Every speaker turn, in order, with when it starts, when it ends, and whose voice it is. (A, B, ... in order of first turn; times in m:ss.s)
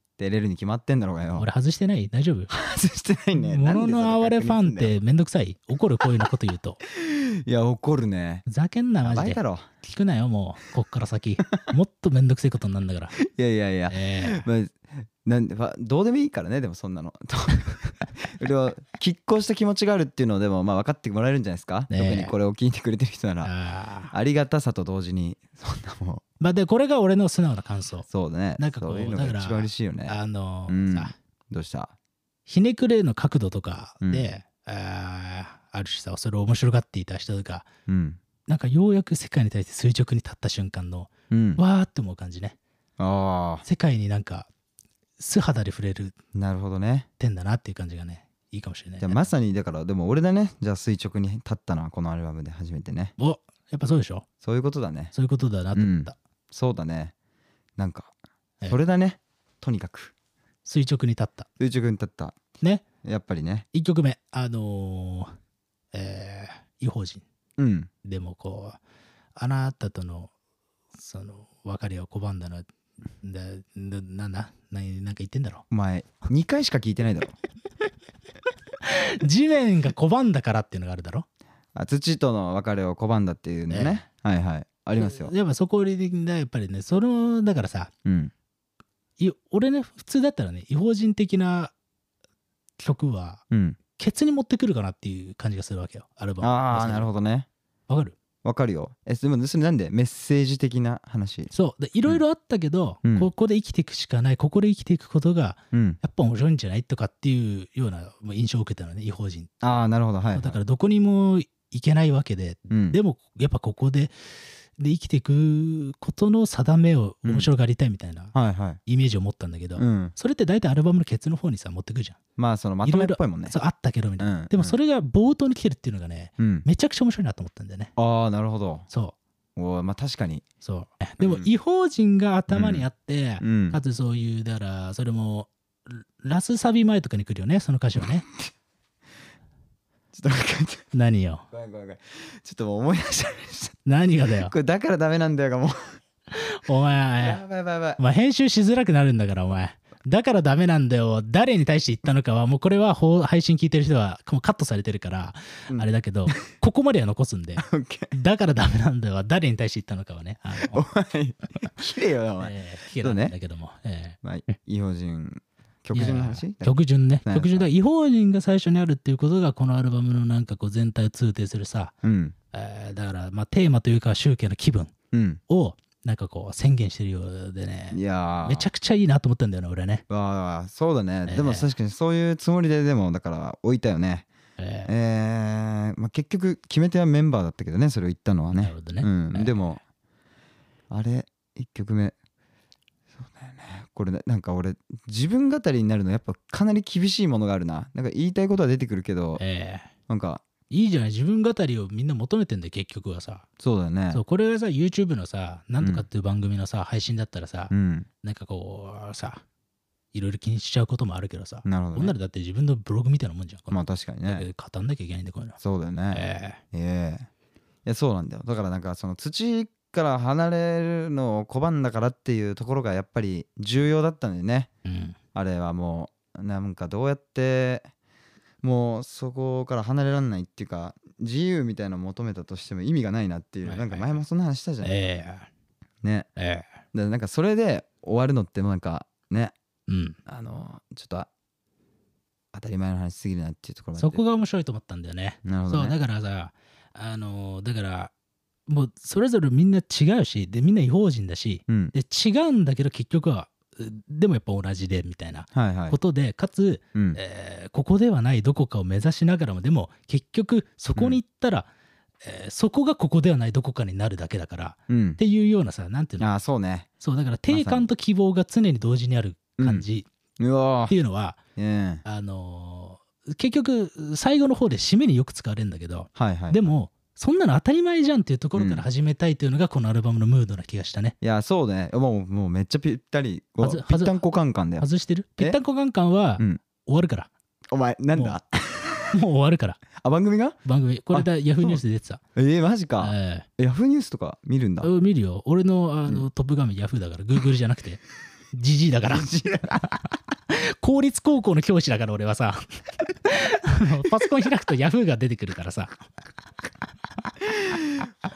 0:00.2-0:01.5 A
0:01.4-0:02.5 B
0:02.5-0:04.9 A
0:03.3-0:06.8 B
0:06.8-0:08.4 A
0:08.4-0:13.2 B
0:09.0-0:09.6 A
0:13.2-0:23.5 A
0:13.9-0:14.5 B
0:21.9-0:22.3 B
0:23.4-0:24.1 B
0:24.1-0:26.2 A
0:26.4-0:31.1 B
0:28.1-0:30.2 A
0:30.7-0:31.9 A
0:32.4-0:37.7 B
0:34.0-0:34.3 A
0:37.9-0:38.2 A
0:38.5-0:42.6 B
0:41.3-0:41.6 A
0:43.0-0:43.6 A
0:43.6-0:44.5 B
0:45.2-0:46.1 B
0:46.3-0:47.1 A
0:47.2-0:49.3 B
0:49.0-0:53.1 A
0:53.2-0:54.2 B
0:54.4-0:55.1 A
0:55.1-0:56.1 B
0:55.7-0:57.1 A
0:57.8-0:58.1 A
0:58.7-1:00.1 A
1:00.6-1:01.5 B
1:01.6-1:02.4 A
1:03.0-1:03.7 A
1:03.7-1:05.3 B
1:05.9-1:07.2 B
1:07.6-1:07.9 A
1:08.0-1:08.8 B
1:09.4-1:10.3 B
1:11.0-1:12.6 B
1:13.2-1:15.6 B
1:15.7-1:17.3 A
1:18.8-1:21.2 B
1:21.7-1:25.3 A
1:23.7-1:24.0 B
1:25.0-1:27.9 B
1:28.0-1:28.3 A
1:29.2-1:31.7 B
1:32.8-1:33.4 B
1:33.5-1:33.8 A
1:34.0-1:37.1 B
1:36.4-1:37.5 A
1:37.9-1:38.2 B
1:38.4-1:41.5 A
1:41.5-1:49.6 B
1:43.0-1:43.3 A
1:45.7-1:46.0 A
1:49.6-1:50.6 A
1:50.3-1:54.1 B
1:52.7-1:53.0 A
1:54.8-1:58.3 B
1:57.2-1:57.5 A
1:58.3-1:58.8 A
1:58.8-2:02.2 B
1:59.8-2:00.1 A
2:02.4-2:03.6 A
2:02.8-2:07.9 B
2:04.2-2:04.8 A
2:06.4-2:06.6 A
2:08.0-2:08.9 A
2:08.9-2:09.2 B
2:09.6-2:10.4 A
2:10.6-2:18.2 B
2:11.2-2:11.5 A
2:12.5-2:12.8 A
2:13.4-2:13.8 A
2:20.1-2:20.9 A
2:20.9-2:21.4 B
2:21.5-2:26.0 A
2:23.8-2:24.5 B
2:26.3-2:27.4 B
2:27.2-2:28.0 A
2:28.0-2:40.8 B
2:35.7-2:36.3 A
2:37.6-2:38.1 A
2:40.6-2:43.3 A
2:42.4-2:44.2 B
2:44.2-2:47.6 A
2:45.9-2:51.9 B
2:52.0-2:52.3 A
2:52.5-2:54.9 B
2:55.1-2:55.4 A
2:55.5-3:00.0 B
2:57.9-2:58.7 A
3:00.1-3:04.3 A
3:01.3-3:01.7 B
3:04.6-3:04.9 B
3:04.8-3:09.8 A
3:08.5-3:09.6 B
3:10.9-3:12.1 A
3:13.2-3:19.4 A
3:19.4-3:19.9 B
3:20.1-3:20.4 A
3:20.7-3:23.4 B
3:23.6-3:24.2 A
3:24.1-3:29.4 B
3:25.8-3:26.1 A
3:27.7-3:28.1 A
3:30.1-3:35.6 B
3:31.6-3:32.1 A
3:33.7-3:34.5 A
3:35.6-3:37.3 A
3:36.1-3:36.6 B
3:37.8-3:44.7 A
3:44.8-3:45.2 B
3:45.3-3:47.9 A
3:48.6-3:54.9 A
3:53.6-3:54.1 B
3:54.8-3:55.5 B
3:56.0-3:56.3 A
3:56.4-3:56.7 B
3:56.9-3:59.5 A
3:59.9-4:00.2 B
4:00.2-4:01.3 A
4:02.5-4:04.2 A
4:04.0-4:08.1 B
4:05.4-4:06.0 A
4:08.7-4:21.7 B
4:11.7-4:11.9 A
4:15.5-4:16.0 A
4:22.2-4:26.3 B
4:24.9-4:25.2 A
4:26.2-4:26.9 A
4:27.0-4:30.1 B
4:27.5-4:27.9 A
4:29.6-4:29.8 A
4:30.4-4:31.0 A
4:30.9-4:31.4 B
4:31.6-4:32.0 A
4:32.0-4:41.1 B
4:36.2-4:36.6 A
4:38.5-4:38.8 A
4:41.2-4:44.9 A
4:43.6-4:44.2 B
4:44.8-4:47.3 B
4:47.7-4:49.1 A
4:49.1-4:49.8 B
4:50.0-4:50.6 A
4:50.6-4:52.2 B
4:51.1-4:51.8 A
4:52.4-4:54.9 A
4:53.0-4:53.5 B
4:54.8-5:06.0 B
4:59.0-5:00.0 A
5:07.5-5:08.1 A